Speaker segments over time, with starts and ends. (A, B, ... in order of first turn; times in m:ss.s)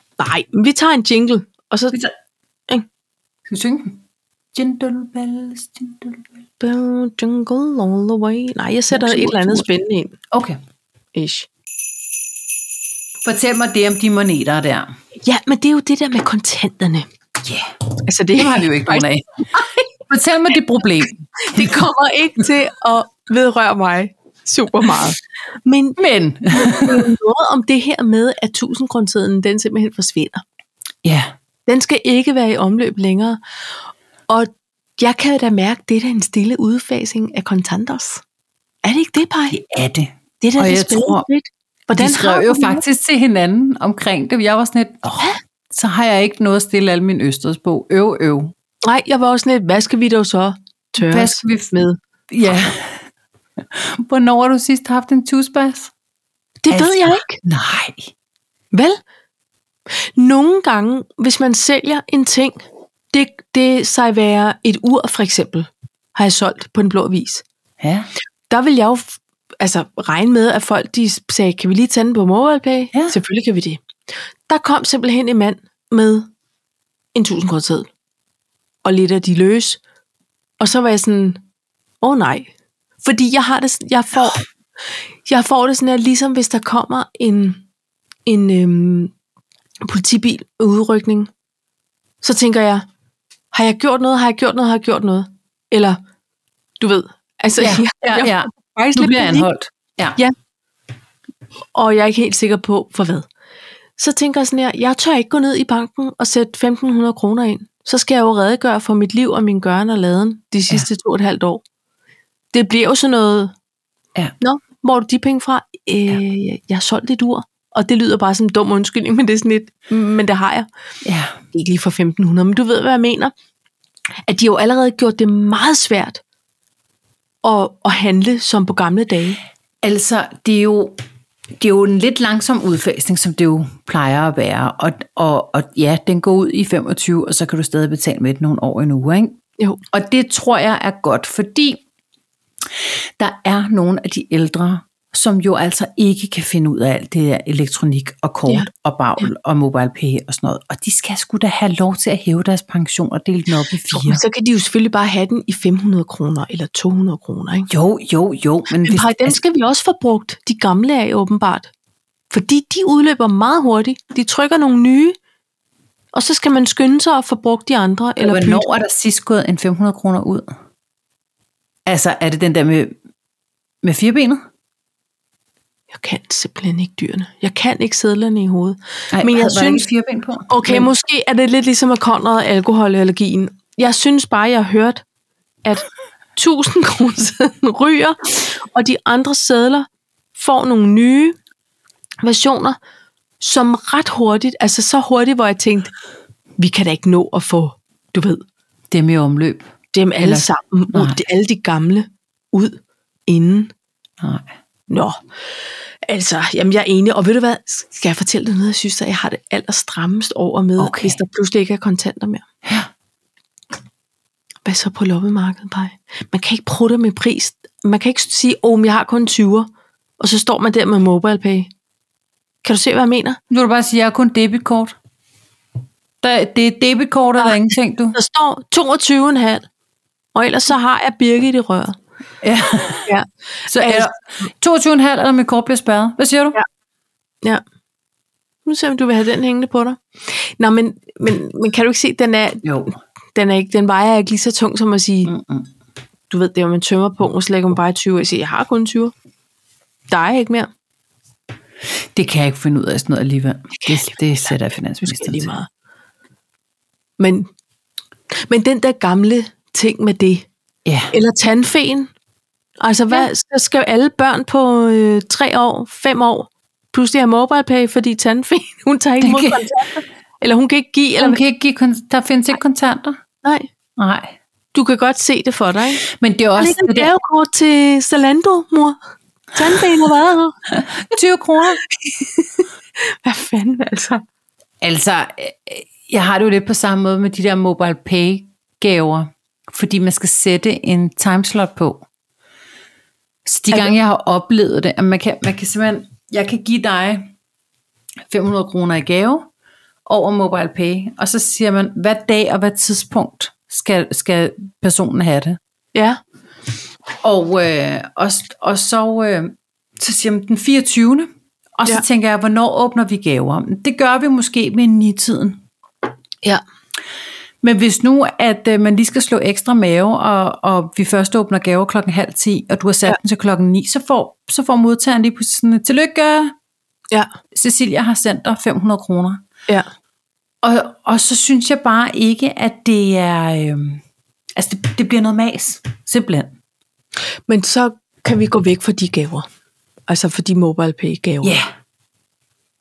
0:00.2-0:02.0 A
0:03.5-0:04.0 B
0:04.5-0:06.3 B
0:06.6-0:10.1 A
0:08.9-0:09.6 B
0:10.3-0:10.6 B
0:11.1-0:11.5 A
0:13.2-0:14.9 B
0:15.2-0:17.1 A
0:17.4-0:17.7 B
0:18.0-0:19.9 A
0:18.4-0:19.2 B
0:20.1-0:21.9 B
0:21.4-0:26.0 A
0:26.0-0:27.1 B
0:26.5-0:30.4 A
0:31.0-0:31.3 B
0:31.7-0:33.4 A
0:34.3-0:38.2 A
0:38.8-0:39.6 A
0:39.5-0:41.3 B
0:40.4-0:42.8 A
0:41.9-0:48.5 B
0:45.1-0:45.4 A
0:48.8-0:52.0 A
0:51.0-0:51.7 B
0:52.3-0:53.0 B
0:53.7-0:55.9 B
0:56.6-0:57.4 A
0:56.7-0:58.1 B
0:58.7-0:59.0 A
1:00.2-1:07.4 A
1:07.8-1:08.1 B
1:08.5-1:13.8 A
1:14.5-1:16.3 A
1:17.1-1:17.9 A
1:18.8-1:19.8 A
1:20.6-1:21.4 A
1:22.0-1:22.5 A
1:23.0-1:24.4 A
1:25.2-1:27.6 A
1:28.2-1:29.1 A
1:29.8-1:31.3 A
1:32.2-1:32.8 A
1:33.5-1:36.0 A
1:36.8-1:39.5 A
1:37.6-1:40.2 B
1:41.7-1:43.3 A
1:44.0-1:51.6 A
1:52.5-1:53.5 A
1:54.4-2:00.7 A
2:01.0-2:01.4 B
2:01.5-2:03.3 A
2:04.3-2:06.2 A
2:07.4-2:09.4 A
2:09.8-2:11.0 B
2:11.5-2:19.4 B
2:19.9-2:21.8 B
2:23.2-2:34.2 B
2:33.9-2:37.7 A
2:37.7-2:39.4 B
2:38.7-2:41.7 A
2:42.3-2:45.2 A
2:46.1-2:48.7 A
2:48.2-2:50.5 B
2:51.8-2:53.0 B
2:53.8-2:54.4 B
2:55.9-2:59.9 A
2:59.1-3:00.9 B
3:00.5-3:05.0 A
3:05.6-3:11.4 A
3:12.2-3:12.8 A
3:13.4-3:15.9 A
3:16.6-3:18.4 A
3:18.9-3:21.2 B
3:19.9-3:23.7 A
3:24.2-3:24.5 B
3:24.9-3:25.2 A
3:26.0-3:32.4 A
3:30.8-3:31.2 B
3:34.6-3:39.7 A
3:40.2-3:41.7 A
3:42.6-3:43.4 A
3:43.5-3:45.0 B
3:46.2-3:48.2 B
3:48.1-3:49.7 A
3:50.3-3:52.0 A
3:52.4-3:53.1 B
3:53.0-3:54.1 A
3:53.7-3:56.6 B
3:58.6-4:05.3 A
4:02.6-4:02.9 B
4:05.2-4:05.7 B
4:06.3-4:09.1 A
4:10.1-4:10.7 A
4:12.1-4:15.5 B
4:15.0-4:15.7 A
4:17.2-4:17.5 A
4:18.3-4:20.5 A
4:20.8-4:21.1 B
4:21.1-4:22.1 A
4:22.8-4:31.4 A
4:29.2-4:29.6 B
4:31.2-4:33.2 B
4:33.4-4:33.7 A
4:34.0-4:34.4 B
4:34.7-4:36.0 A
4:36.0-4:37.1 B
4:36.6-4:39.0 A
4:39.5-4:40.6 A
4:40.7-4:41.8 B
4:42.1-4:44.2 A
4:44.8-4:52.0 B
4:53.4-4:57.3 B
4:58.3-4:59.5 B
5:00.0-5:05.6 B
5:05.9-5:06.2 A
5:07.2-5:15.6 B
5:17.6-5:26.5 B
5:27.5-5:29.4 B
5:30.6-5:34.0 B
5:34.6-5:36.5 B
5:37.5-5:39.5 A
5:40.1-5:41.5 A
5:41.4-5:41.7 B